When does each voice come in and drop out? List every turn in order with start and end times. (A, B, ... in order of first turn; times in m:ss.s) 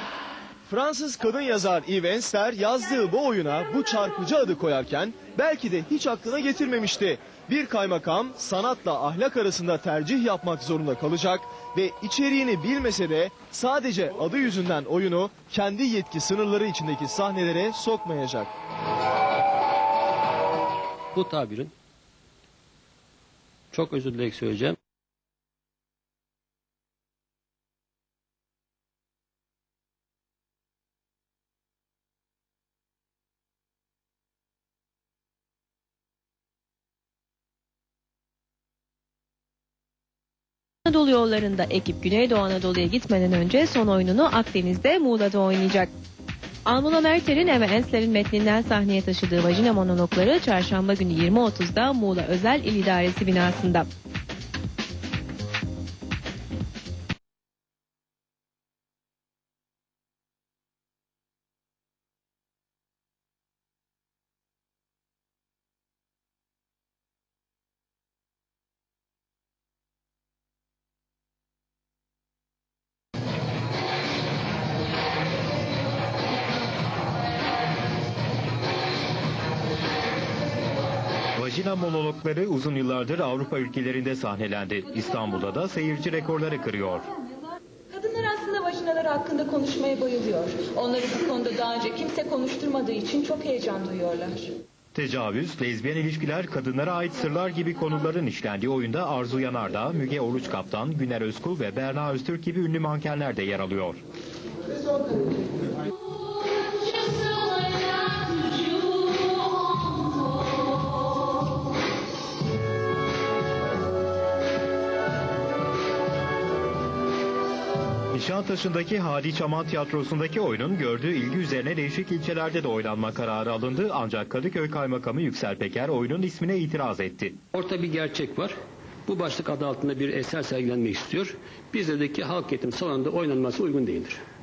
0:00.7-0:18.5 A
0:21.1-0:21.7 B
0:23.7-0:24.8 B
0:40.8-0:45.9 C
0:46.6-0:53.9 C
1:21.4-1:27.1 D
1:27.9-1:34.5 E
1:34.9-1:44.0 D
1:58.1-2:07.4 D
2:07.5-2:08.5 B
2:09.0-2:14.2 B